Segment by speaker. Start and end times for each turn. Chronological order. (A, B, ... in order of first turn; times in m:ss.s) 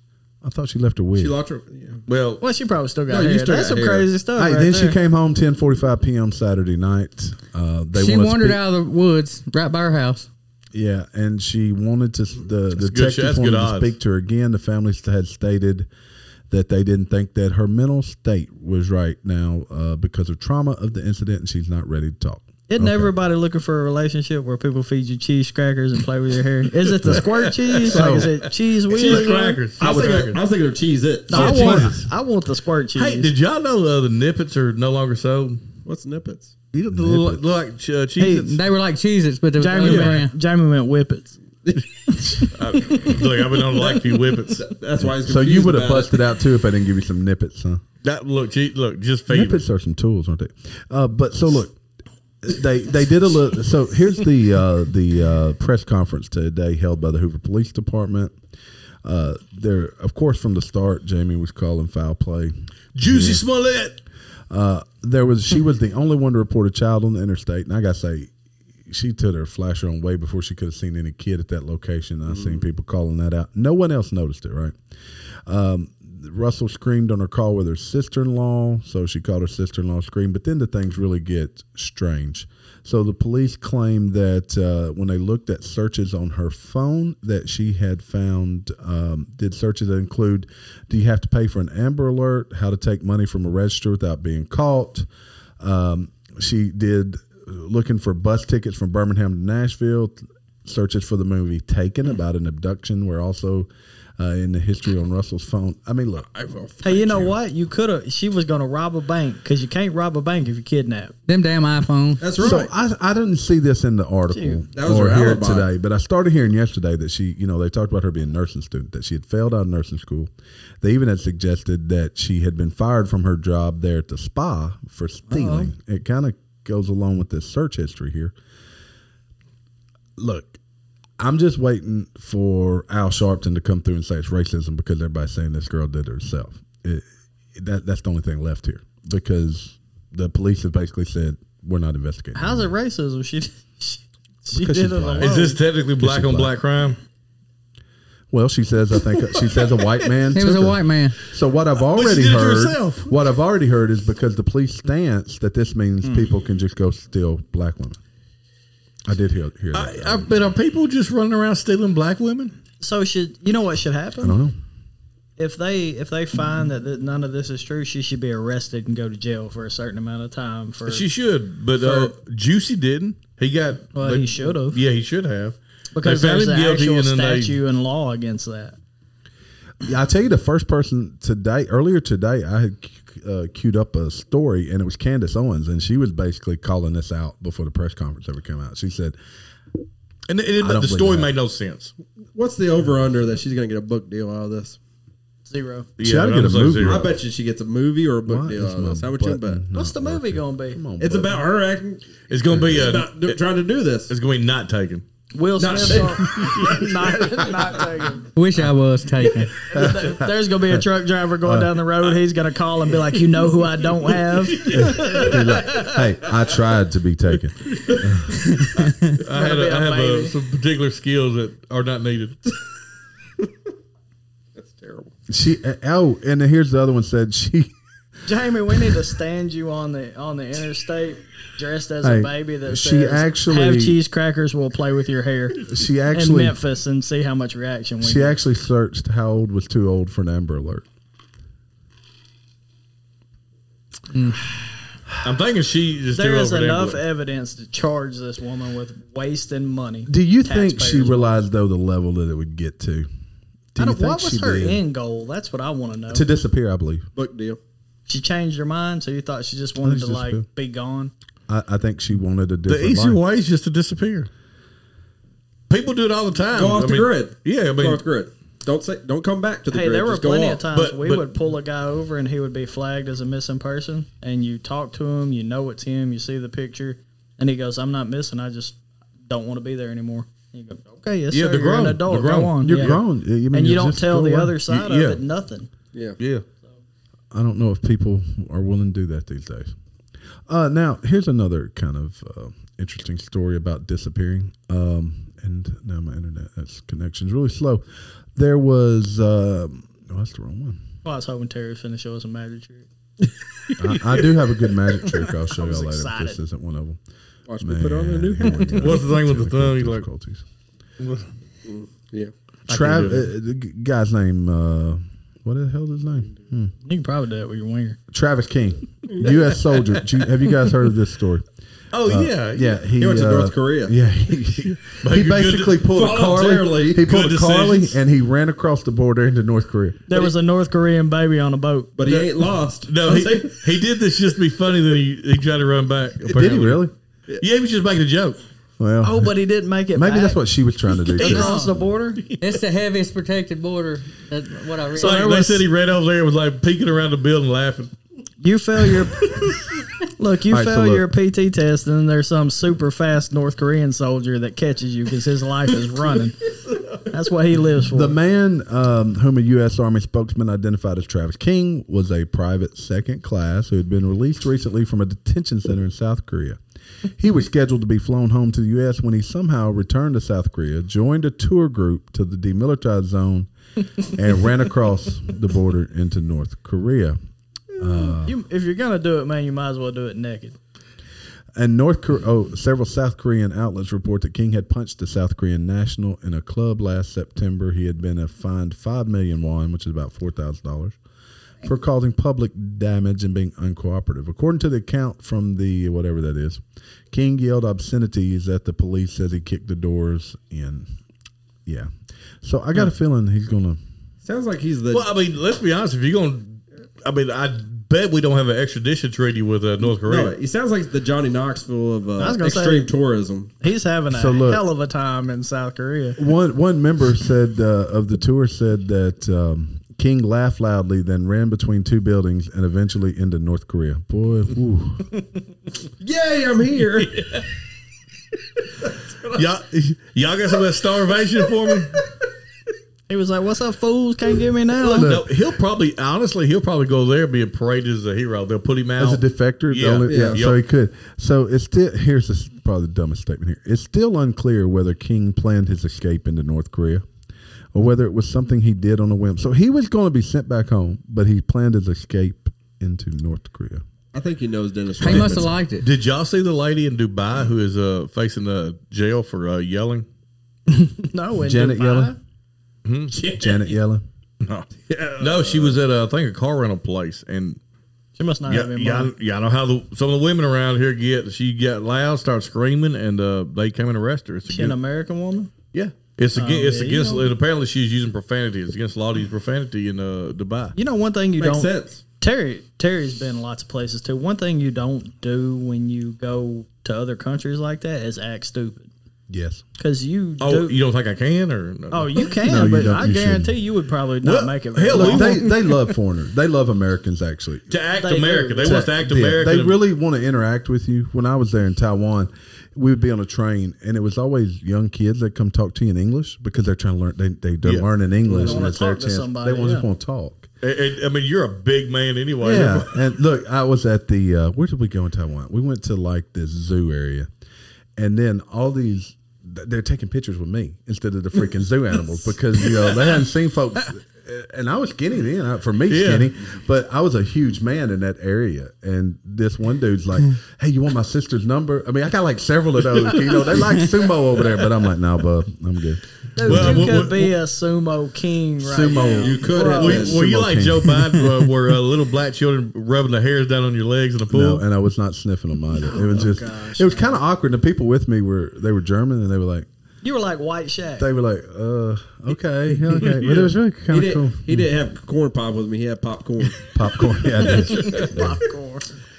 0:00.4-0:01.3 A
0:01.1-0:02.0 B
0:02.1-0:02.4 C
0:02.4-0:05.0 D
0:03.1-0:04.1 B
0:04.4-0:08.6 A
0:07.9-0:10.3 E
0:10.7-0:15.9 A
0:12.8-0:13.9 C
0:16.5-0:23.1 A
0:22.7-0:29.6 D
0:27.0-0:30.4 C
0:27.8-0:28.3 A
0:29.0-0:31.5 B
0:29.8-0:30.3 A
0:31.3-0:33.3 D
0:31.3-0:32.0 A
0:31.3-0:32.1 C
0:32.9-0:35.6 C
0:35.8-0:36.5 B
0:36.7-0:38.6 C
0:36.9-0:37.4 A
0:38.2-0:38.6 D
0:38.3-0:40.3 E
0:39.6-0:41.4 D
0:39.8-0:40.2 C
0:42.4-0:43.8 D
0:42.5-0:44.6 C
0:43.8-0:46.2 B
0:45.0-0:47.8 A
0:48.0-0:49.6 C
0:49.3-0:51.8 A
0:52.4-0:58.3 A
0:59.0-1:03.4 A
1:02.9-1:04.0 C
1:04.5-1:08.3 A
1:08.9-1:14.7 A
1:12.3-1:12.6 B
1:15.5-1:35.0 A
1:35.6-1:46.3 A
1:46.3-1:47.4 B
1:46.8-1:51.1 D
1:51.3-1:52.2 E
1:52.2-1:52.7 B
1:52.4-2:08.3 A
1:54.3-1:54.6 D
1:54.7-1:55.7 B
2:05.3-2:05.7 D
2:10.2-2:10.6 A
2:11.2-2:22.7 A
2:22.3-2:25.6 D
2:24.5-2:25.4 A
2:25.2-2:27.0 C
2:26.0-2:26.5 A
2:28.3-2:38.0 A
2:30.3-2:31.2 E
2:31.9-2:33.1 C
2:39.0-2:40.5 A
2:39.7-2:42.6 C
2:42.8-2:44.4 D
2:44.2-2:44.5 A
2:45.4-2:51.0 D
2:50.8-2:57.6 C
2:51.8-2:52.1 D
2:53.9-2:54.8 D
2:55.9-2:58.8 D
2:59.8-3:09.2 A
3:10.3-3:11.9 C
3:10.6-3:11.3 A
3:12.3-3:14.8 B
3:15.4-3:15.9 D
3:16.0-3:17.1 C
3:16.0-3:17.1 A
3:16.8-3:19.6 B
3:18.2-3:21.4 A
3:19.7-3:20.8 D
3:21.0-3:24.1 B
3:22.3-3:23.4 C
3:22.5-3:23.0 A
3:24.1-3:25.0 C
3:25.3-3:28.3 D
3:25.6-3:27.8 B
3:28.3-3:29.7 E
3:29.6-3:36.0 D
3:29.6-3:30.9 A
3:31.4-3:31.8 A
3:34.7-3:38.4 A
3:38.6-3:39.2 E
3:39.2-3:40.3 D
3:39.2-3:42.4 C
3:44.6-3:45.1 B
3:45.3-3:47.7 A
3:48.2-3:58.4 D
3:52.0-3:54.0 A
3:55.7-3:56.6 A
3:58.0-4:00.8 A
4:04.1-4:04.4 E
4:05.2-4:07.0 C
4:06.1-4:11.4 D
4:10.1-4:13.1 A
4:13.7-4:14.8 A
4:13.8-4:16.3 D
4:16.1-4:17.1 A
4:17.1-4:17.6 B
4:18.1-4:21.1 D
4:19.8-4:20.5 A
4:21.5-4:23.2 A
4:22.7-4:24.3 C
4:25.7-4:28.0 C
4:26.5-4:30.6 B
4:29.7-4:45.7 D
4:30.7-4:31.2 C
4:41.3-4:43.0 C
4:42.6-4:44.6 A
4:44.7-4:45.2 C
4:46.2-4:46.4 C
4:47.3-4:49.7 A
4:50.5-4:57.8 A
4:58.3-5:00.8 A
5:01.0-5:02.8 D
5:03.8-5:07.0 A
5:05.1-5:06.4 D
5:07.5-5:09.0 B
5:07.6-5:10.4 A
5:08.8-5:10.0 C
5:11.0-5:11.3 C
5:11.6-5:12.3 B
5:12.7-5:13.3 C
5:12.7-5:16.7 A
5:16.8-5:18.0 D
5:18.1-5:21.4 A
5:21.9-5:22.8 C
5:22.0-5:30.1 A
5:23.0-5:23.9 B
5:24.9-5:25.8 C
5:25.8-5:27.1 B
5:27.0-5:28.0 C
5:30.1-5:31.9 D
5:32.0-5:33.8 B
5:32.8-5:36.8 C
5:36.2-5:36.9 A
5:37.4-5:38.4 C
5:38.8-5:39.4 A
5:39.0-5:40.4 D
5:39.9-5:41.6 A
5:41.1-5:42.3 D
5:41.2-5:41.8 E
5:42.4-5:45.3 E
5:45.0-5:45.6 D
5:45.0-5:47.9 C
5:48.4-5:49.5 D
5:48.9-5:49.6 C
5:50.2-5:56.5 D
5:50.5-5:51.1 A
5:57.1-5:58.1 D
5:57.9-6:06.6 A
6:07.2-6:17.2 A
6:17.8-6:18.4 A
6:18.2-6:20.6 D
6:21.6-6:31.0 A
6:31.6-6:40.9 A
6:41.6-6:41.9 A
6:42.4-6:43.8 A
6:44.2-6:45.1 B
6:44.9-6:50.3 C
6:49.9-6:53.5 B
6:52.2-6:52.9 D
6:53.6-6:56.2 D
6:54.1-6:54.6 A
6:56.2-7:05.1 A
7:06.0-7:07.4 B
7:08.8-7:09.4 B
7:09.3-7:12.1 C
7:13.1-7:15.1 D
7:14.8-7:20.6 C
7:14.9-7:15.3 A
7:19.0-7:27.0 A
7:20.1-7:20.4 B
7:27.7-7:33.8 A
7:34.1-7:35.6 B
7:35.0-7:35.9 E
7:35.1-7:40.0 C
7:40.7-7:42.2 D
7:41.4-7:42.2 A
7:42.8-7:43.2 C
7:43.1-7:43.7 B
7:43.3-7:44.0 A
7:44.4-7:44.7 C
7:44.9-7:45.8 B
7:45.2-7:47.6 C
7:48.2-7:49.1 D
7:48.5-7:54.8 C
7:54.5-7:55.5 D
7:55.7-8:00.8 C
7:56.3-7:57.3 D
8:00.8-8:08.9 D
8:01.4-8:02.0 B
8:09.3-8:09.6 A
8:09.8-8:10.8 D
8:10.4-8:12.7 C
8:11.9-8:15.6 D
8:12.4-8:13.5 A
8:14.2-8:15.5 C
8:14.9-8:17.7 A
8:17.7-8:19.8 C
8:18.0-8:18.9 D
8:18.6-8:30.5 A
8:28.2-8:29.9 D
8:30.6-8:33.0 C
8:32.4-8:37.3 A
8:38.0-8:57.0 A
8:45.9-8:46.3 C
8:56.4-9:00.1 D
8:56.4-8:57.3 C
8:58.6-9:01.0 A
8:58.9-9:00.2 B
8:59.6-9:04.6 C
9:04.3-9:09.7 A
9:05.8-9:07.2 D
9:10.0-9:11.1 D
9:11.0-9:14.7 A
9:13.2-9:13.5 C
9:13.9-9:16.6 B
9:16.7-9:18.4 A
9:17.6-9:18.9 D